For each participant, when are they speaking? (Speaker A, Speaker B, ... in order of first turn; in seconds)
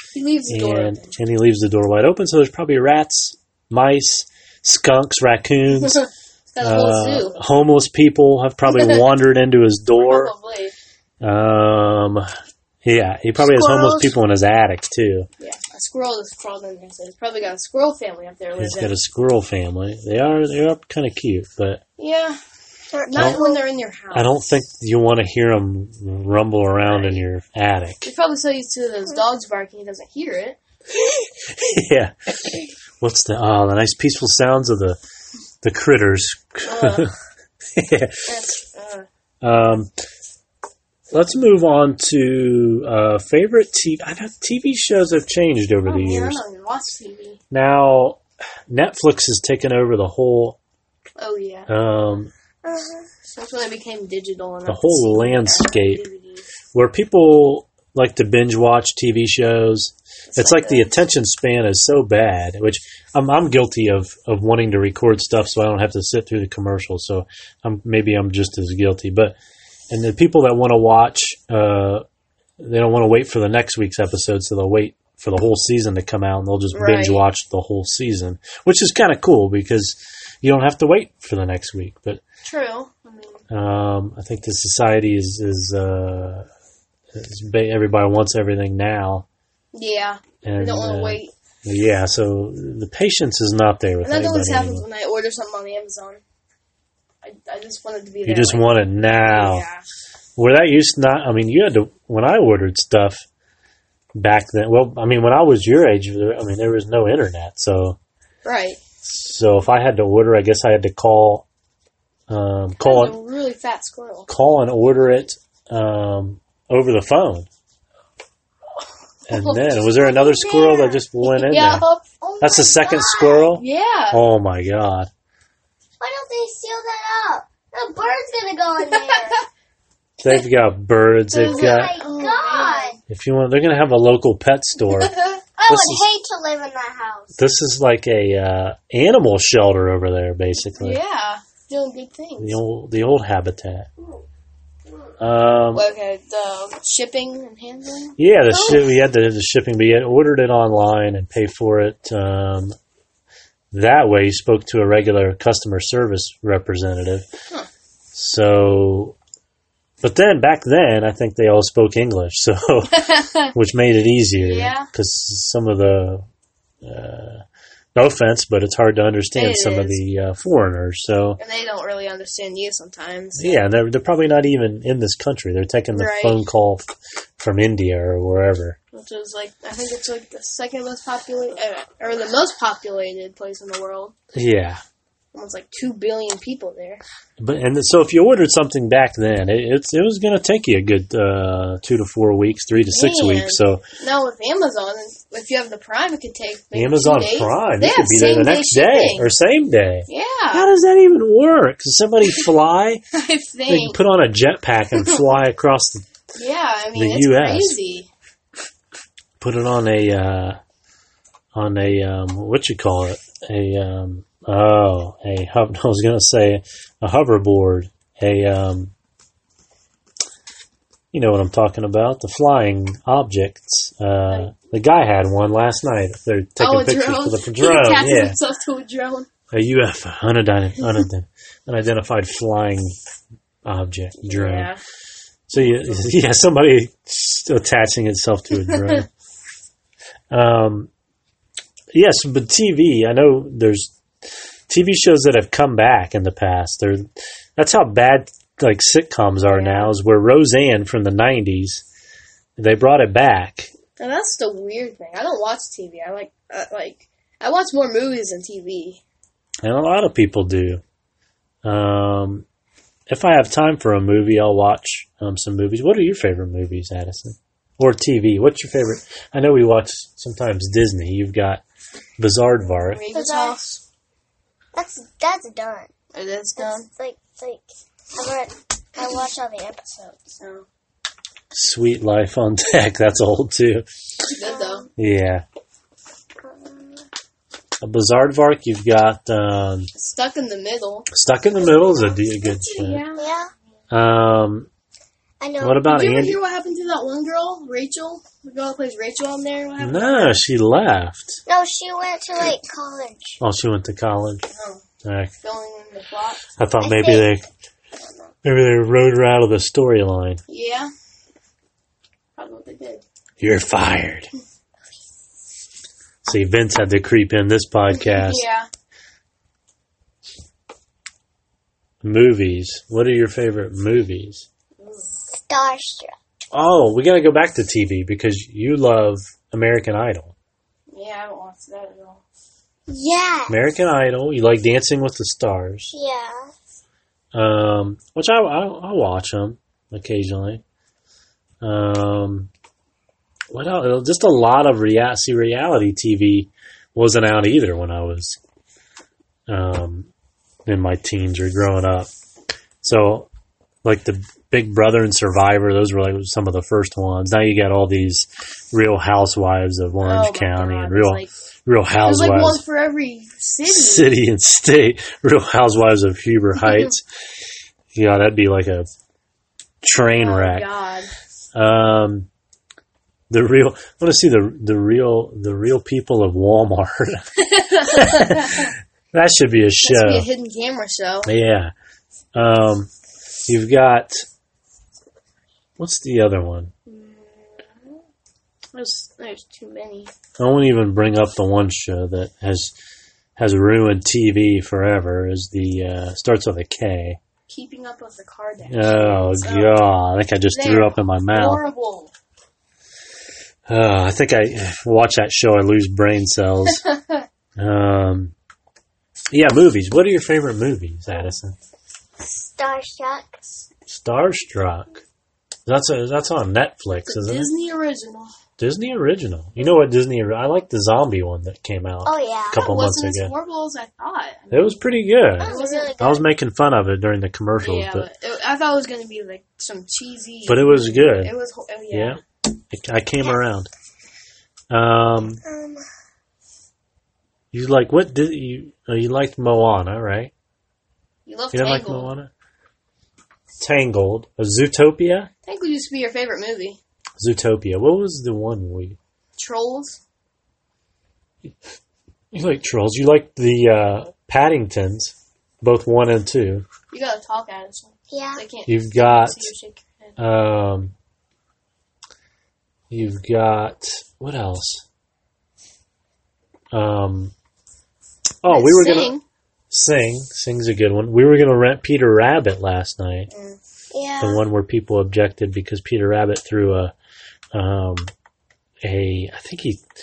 Speaker A: 0.1-1.1, 5.8-7.4, 8.7-9.1, 9.9-10.7, 15.4-18.9, 22.0-22.4, 23.1-24.3, 26.8-27.2, 28.0-30.6, 36.6-37.1, 38.2-39.1, 45.9-47.4, 51.1-51.7, 53.2-56.4, 60.3-60.9, 76.7-77.2, 82.4-83.4, 89.7-91.3, 94.0-96.2, 97.2-99.8, 108.4-108.8, 112.8-114.3, 119.3-122.0, 123.5-124.2, 128.9-129.3, 131.3-133.0, 134.9-135.4, 140.8-142.6, 145.7-148.2, 162.9-163.5, 164.3-164.9, 169.3-170.0, 171.4-173.6, 175.9-176.4, 178.9-184.1, 185.3-187.0, 192.8-199.3, 200.1-200.7, 203.1-204.0, 204.9-205.3, 206.3-208.1, 226.6-229.3, 234.2-234.8, 235.6-236.0, 238.7-239.0, 249.5-249.9, 254.0-259.0, 272.8-273.8, 276.1-276.9, 280.2-280.6, 284.3-284.9, 289.9-293.3, 295.8-300.4, 304.5-304.8, 305.4-306.4, 308.0-308.3, 310.5-310.9, 312.4-313.0, 317.9-318.7, 324.8-325.1, 330.9-332.2, 360.0-361.3, 362.0-364.1, 366.6-366.9, 370.1-371.1, 377.4-378.7, 379.8-381.3, 386.9-387.9, 388.7-390.1, 397.5-399.8, 400.5-402.1, 406.8-407.2, 417.1-418.3, 422.5-426.0, 427.6-432.2, 441.2-442.1, 445.4-446.8, 449.4-450.0, 456.9-460.2, 468.5-469.2, 473.3-473.6
Speaker B: 0.5-6.0, 6.6-10.3, 11.2-12.3, 12.8-15.3, 18.6-21.8, 23.1-23.4, 24.1-28.1, 31.1-35.0, 35.6-37.1, 37.8-38.3, 39.4-39.9, 41.1-46.4, 47.5-50.6, 51.7-52.3, 54.6-56.0, 56.7-69.3, 69.9-72.0, 72.6-82.2, 83.5-86.5, 87.1-89.2, 90.4-94.8, 98.2-99.7, 100.4-103.2, 104.1-108.0, 109.0-111.4, 112.3-113.2, 114.3-117.5, 119.3-121.8, 122.4-125.1, 130.2-131.9, 133.1-135.1, 135.7-136.0, 137.3-141.0, 142.4-143.9, 145.2-145.8, 148.2-152.8, 153.7-157.3, 158.1-159.2, 160.0-166.2, 166.8-167.4, 167.9-171.4, 173.4-176.8, 177.4-178.8, 184.3-184.8, 187.4-193.8, 196.7-203.0, 203.7-206.0, 206.9-207.8, 209.4-210.6, 211.5-218.9, 221.1-228.4, 229.5-232.9, 233.6-234.7, 235.5-239.1, 240.3-240.9, 241.9-243.9, 244.7-251.8, 252.6-253.7, 259.6-260.8, 261.6-262.4, 263.1-271.6, 272.2-273.0, 281.5-283.9, 285.0-285.4, 287.8-289.9, 291.1-293.0, 293.9-294.7, 295.6-296.4, 299.8-301.4, 303.4-304.4, 305.0-305.3, 306.6-307.4, 308.4-310.4, 313.4-314.3, 316.2-318.4, 322.0-324.4, 326.5-330.3, 333.5-335.9, 337.3-340.6, 341.6-342.5, 343.5-348.4, 349.5-350.1, 350.6-352.1, 352.8-353.3, 353.8-362.6, 363.7-367.0, 367.9-368.9, 369.8-370.7, 371.5-372.3, 373.3-377.3, 377.8-380.3, 381.2-381.7, 382.3-382.9, 383.5-384.2, 385.8-386.7, 390.4-392.7, 393.4-397.2, 398.7-401.6, 403.7-406.8, 407.6-408.3, 409.3-411.6, 413.9-415.0, 415.6-417.5, 418.6-423.3, 424.5-428.1, 430.5-431.3, 431.9-433.7, 434.7-435.4, 437.5-440.3, 441.5-442.3, 443.6-445.3, 447.2-449.0, 452.3-456.6, 458.7-459.5, 460.2-460.9, 462.9-464.8, 466.7-467.3, 468.4-469.1, 469.7-473.3, 474.2-476.9, 477.5-478.1, 478.8-479.8
Speaker C: 13.4-14.1, 22.9-23.6, 52.6-53.1, 122.2-123.5, 126.0-129.4, 131.3-133.0, 135.6-137.3, 148.5-148.8, 273.1-273.6, 274.7-275.9, 276.6-280.2, 284.4-284.9, 286.4-287.1, 293.2-293.5, 295.4-295.9, 301.5-303.4, 306.8-307.3, 325.3-326.1, 332.9-333.6, 335.9-336.5, 412.2-413.6, 422.1-422.6, 425.4-426.2, 435.4-435.9, 458.1-458.4, 473.9-474.4